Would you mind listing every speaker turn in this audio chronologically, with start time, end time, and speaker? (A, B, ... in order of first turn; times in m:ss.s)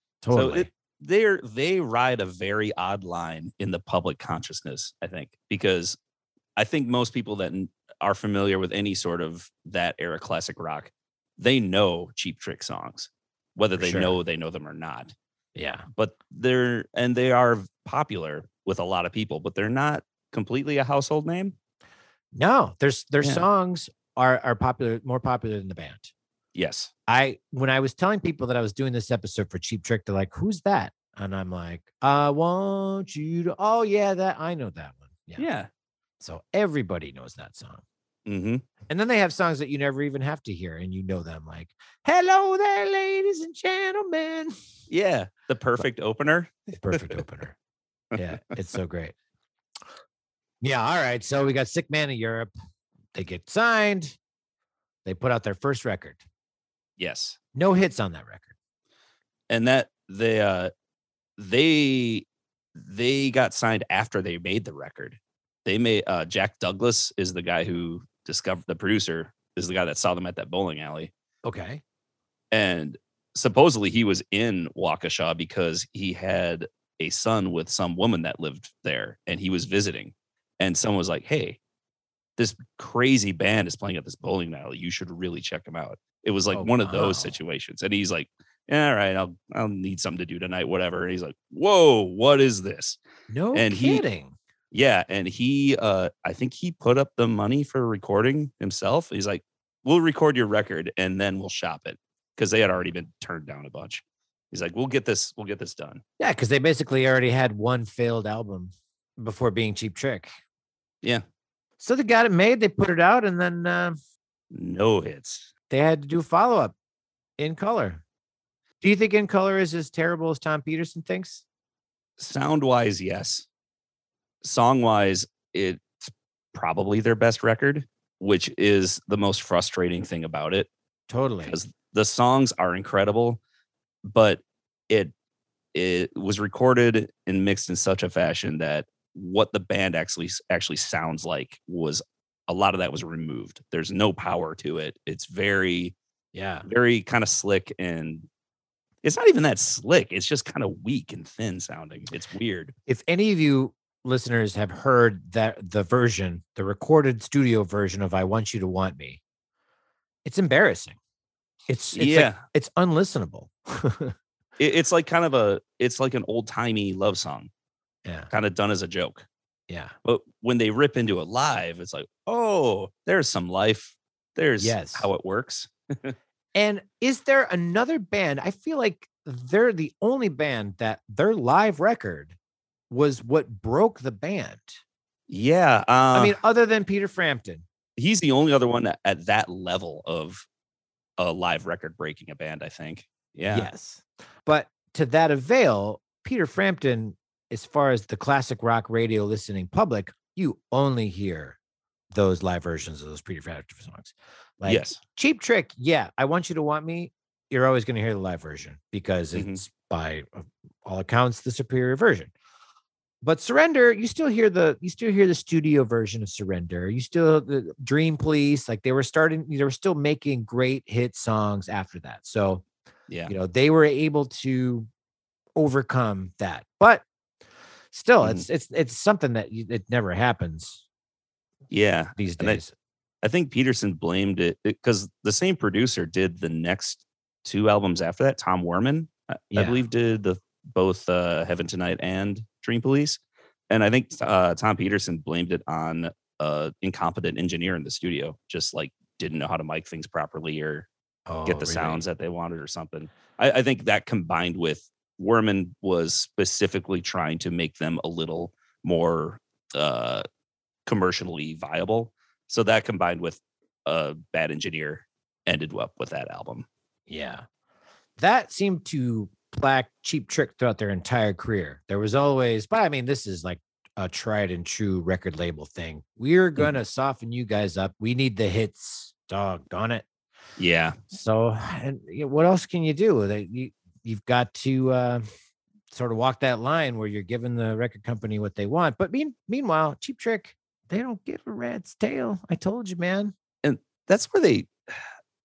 0:00.2-0:00.7 A
0:00.3-0:06.0 B
0:06.6-0:15.1 B
0:13.8-0:14.2 A
0:15.6-0:15.8 A
0:15.9-0:21.5 B
0:22.3-0:26.1 A
0:26.5-0:26.9 B
0:27.1-0:35.5 A
0:35.4-0:35.7 B
0:36.2-0:37.8 A
0:38.3-0:38.6 B
0:38.9-0:44.5 A
0:44.9-0:47.1 B
0:46.7-0:47.6 A
0:48.1-0:49.1 A
0:50.6-0:52.5 A
0:53.1-0:54.2 A
0:55.0-0:56.2 A
0:57.0-0:57.4 B
0:57.5-0:58.5 A
0:59.5-1:00.7 B
1:01.4-1:11.1 B
1:11.4-1:11.8 A
1:12.5-1:21.6 B
1:22.4-1:33.0 B
1:26.5-1:27.4 A
1:33.3-1:34.3 A
1:33.5-1:34.0 B
1:34.7-1:46.0 B
1:46.2-1:50.3 A
1:51.8-1:54.0 A
1:54.5-1:55.5 B
1:55.7-1:56.7 A
1:57.4-1:58.0 A
1:58.8-2:01.4 A
2:02.2-2:03.4 B
2:04.4-2:10.7 B
2:11.1-2:11.6 A
2:11.4-2:13.4 B
2:14.0-2:15.1 B
2:15.7-2:25.9 B
2:26.3-2:26.7 A
2:26.6-2:28.3 B
2:29.0-2:32.7 B
2:32.9-2:39.2 A
2:40.2-2:41.0 A
2:41.7-2:44.1 A
2:41.9-2:42.4 B
2:44.6-2:47.5 B
2:48.3-2:49.2 B
2:49.7-2:49.9 A
2:50.0-2:56.2 B
2:54.6-2:55.1 A
2:56.5-3:02.3 A
3:02.9-3:04.8 A
3:05.3-3:06.4 B
3:06.1-3:07.6 A
3:08.0-3:10.4 B
3:11.2-3:13.7 B
3:13.5-3:21.6 A
3:22.1-3:32.3 A
3:24.6-3:25.0 B
3:29.3-3:29.6 B
3:33.2-3:42.6 A
3:43.3-3:44.9 A
3:45.6-3:47.0 A
3:47.9-3:50.8 A
3:51.7-3:52.6 B
3:52.2-3:52.7 A
3:53.2-4:10.9 B
3:59.5-3:59.8 A
4:11.3-4:12.0 A
4:11.4-4:20.2 B
4:20.8-4:26.6 B
4:27.1-4:27.4 A
4:28.2-4:40.0 A
4:40.6-4:41.0 B
4:41.1-4:45.2 A
4:45.9-4:53.3 A
4:53.6-4:55.0 B